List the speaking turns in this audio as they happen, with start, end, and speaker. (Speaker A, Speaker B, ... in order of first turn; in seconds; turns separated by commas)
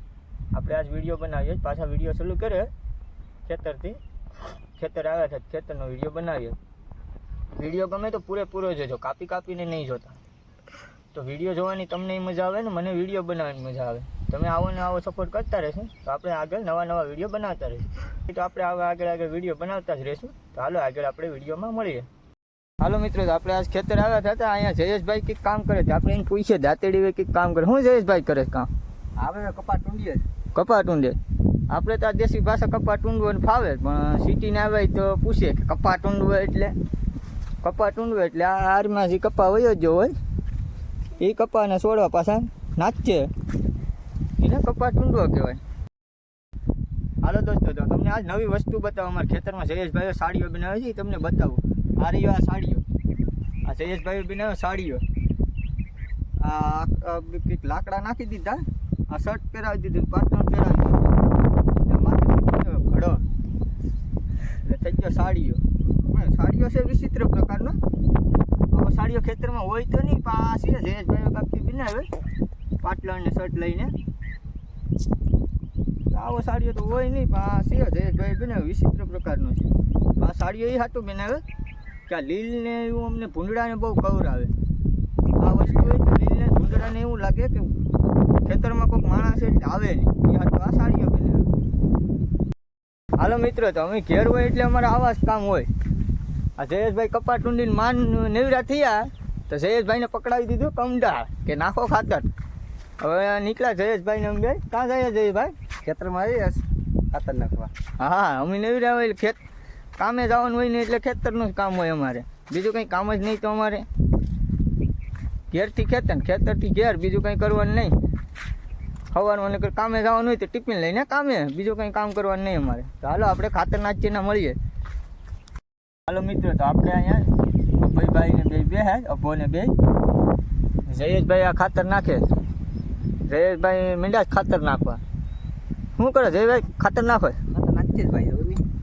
Speaker A: 0.5-2.7, Speaker A: 3.4-4.0, Speaker A: 4.8-6.6, Speaker A: 7.6-10.2, Speaker A: 11.1-22.1, Speaker A: 22.8-28.7, Speaker B: 29.2-30.2, Speaker A: 30.5-31.2, Speaker A: 31.7-36.8, Speaker A: 37.6-40.1, Speaker A: 41.2-43.3, Speaker A: 44.4-45.6, Speaker A: 47.2-52.8, Speaker A: 53.6-55.0, Speaker A: 56.4-61.1, Speaker A: 61.8-63.2, Speaker A: 64.6-67.8, Speaker A: 68.7-72.1, Speaker A: 72.8-73.9, Speaker A: 76.1-81.4, Speaker A: 82.1-84.5, Speaker A: 85.4-87.7, Speaker A: 88.4-91.5, Speaker A: 93.2-95.7, Speaker A: 96.6-102.2, Speaker A: 103.0-105.5, Speaker B: 105.8-107.7, Speaker A: 108.0-109.4, Speaker A: 110.0-113.8, Speaker A: 115.5-117.9, Speaker A: 119.1-124.6, Speaker A: 126.1-129.8, Speaker A: 130.9-132.2, Speaker A: 133.3-135.0, Speaker A: 136.0-137.4, Speaker B: 137.5-138.6